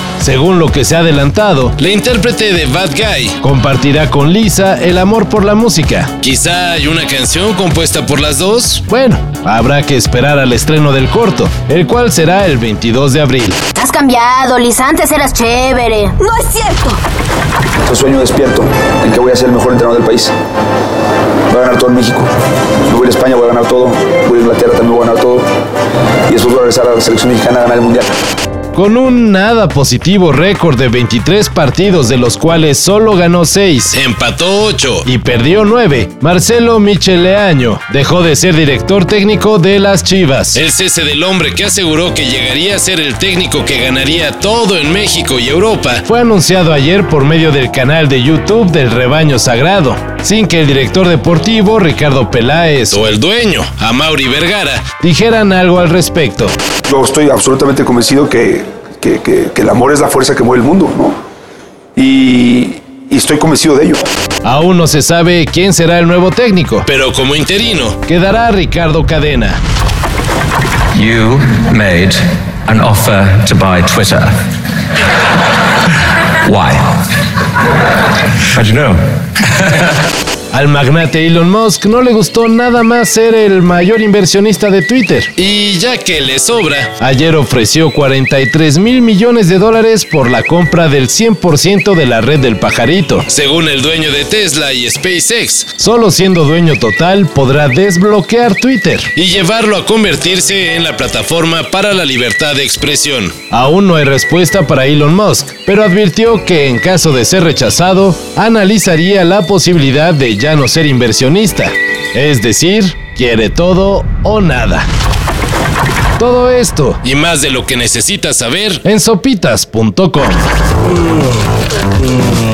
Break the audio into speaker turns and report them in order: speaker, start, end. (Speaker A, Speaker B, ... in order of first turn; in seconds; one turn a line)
Speaker A: 0.2-13.6
Speaker B: 13.8-17.0
Speaker C: 17.8-20.3
Speaker C: 21.5-22.3
Speaker C: 22.9-25.5
Speaker C: 26.3-28.1
Speaker A: 28.7-56.6
Speaker C: 56.9-61.2
Speaker C: 62.0-64.1
Speaker A: 64.4-69.6
Speaker D: 70.9-74.4
Speaker D: 76.4-76.9
Speaker D: 78.5-79.9
Speaker A: 80.5-114.9
Speaker A: 116.2-120.5